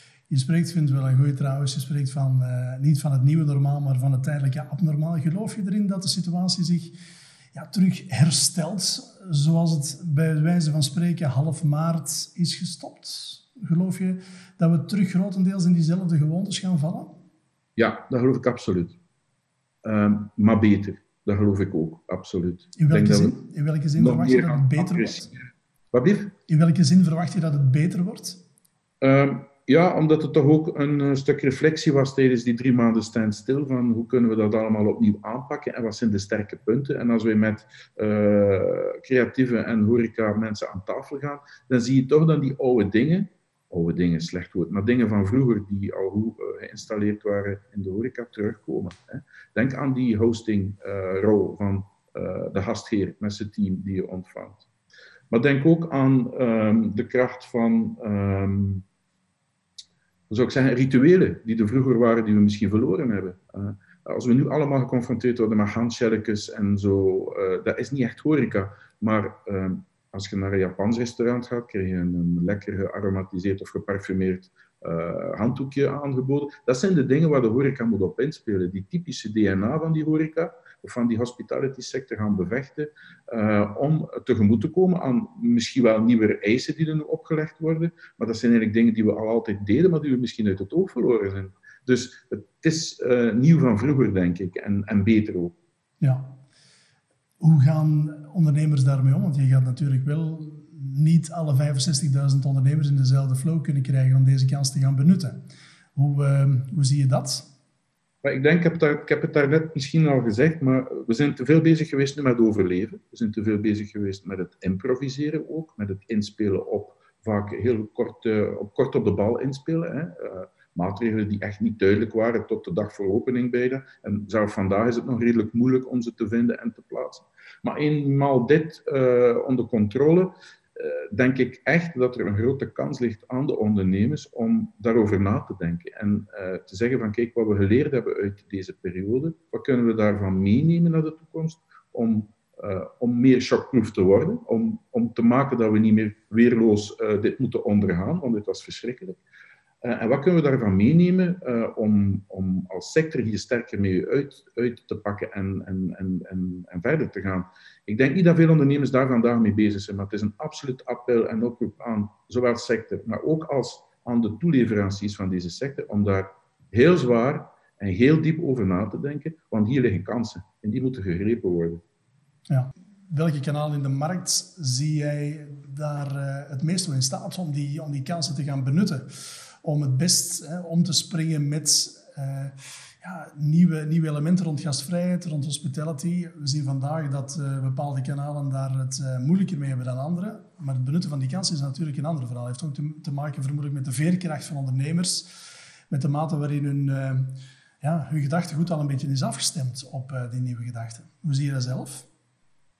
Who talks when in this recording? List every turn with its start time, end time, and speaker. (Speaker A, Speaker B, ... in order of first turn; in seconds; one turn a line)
Speaker A: 0.3-6.9
Speaker A: 7.5-17.1
Speaker B: 17.8-19.0
Speaker B: 19.8-23.4
Speaker A: 22.8-25.3
Speaker B: 23.9-26.3
Speaker A: 26.5-28.4
Speaker B: 29.0-54.6
Speaker B: 55.3-58.8
Speaker B: 60.3-95.5
Speaker A: 96.0-96.3
Speaker A: 97.4-105.4
Speaker A: 105.9-107.5
Speaker B: 108.2-149.2
Speaker B: 149.8-171.8
Speaker A: 172.5-195.3
Speaker A: 195.9-197.3
Speaker A: 197.8-202.1